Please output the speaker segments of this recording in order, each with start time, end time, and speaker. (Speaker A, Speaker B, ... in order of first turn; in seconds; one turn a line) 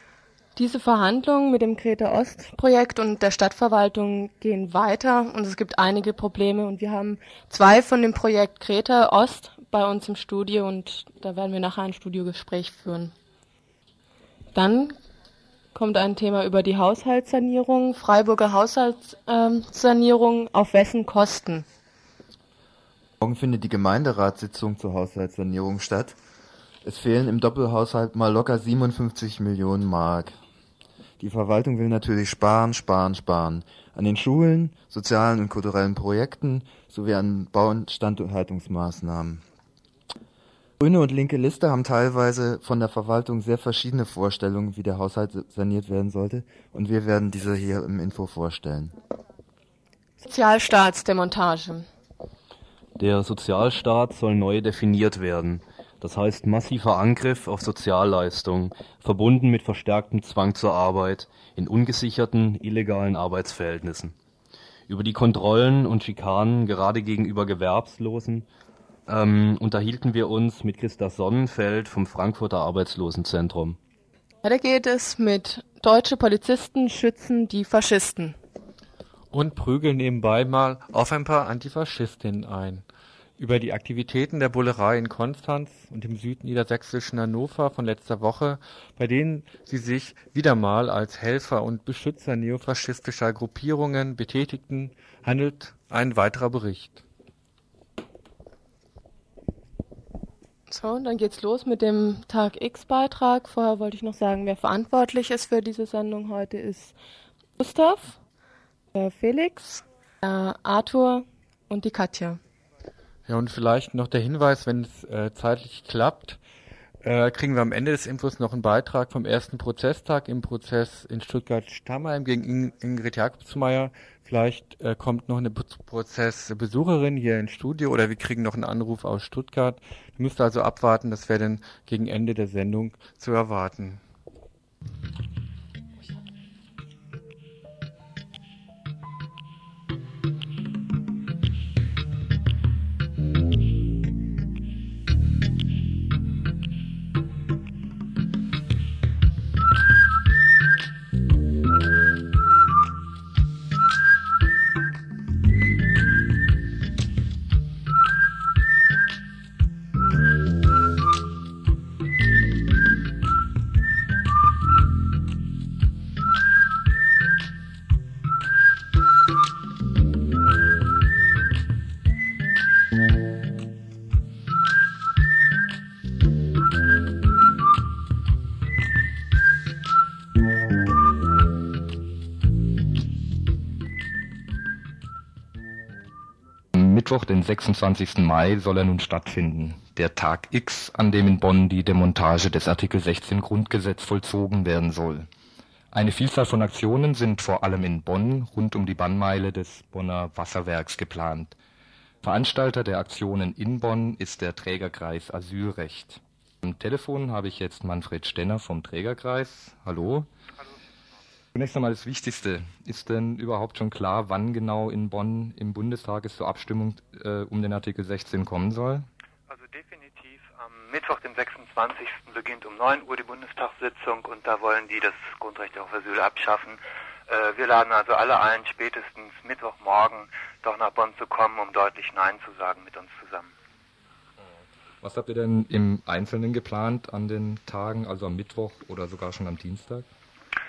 Speaker A: 0.6-13.2
Speaker A: 14.5-15.0
Speaker A: 15.7-21.7
Speaker B: 23.2-26.2
Speaker B: 26.8-30.4
Speaker B: 31.2-39.4
Speaker B: 40.8-48.9
Speaker A: 50.2-51.9
Speaker C: 53.0-64.2
Speaker C: 64.9-68.5
Speaker C: 69.1-73.8
Speaker A: 74.4-78.4
Speaker D: 79.3-82.8
Speaker D: 83.4-97.0
Speaker A: 100.7-107.0
Speaker A: 107.6-108.2
Speaker A: 109.0-112.4
Speaker D: 113.3-116.4
Speaker D: 117.0-134.0
Speaker E: 186.7-195.3
Speaker E: 195.9-201.6
Speaker E: 202.2-210.3
Speaker E: 211.5-219.1
Speaker F: 219.5-233.5
Speaker E: 235.0-240.1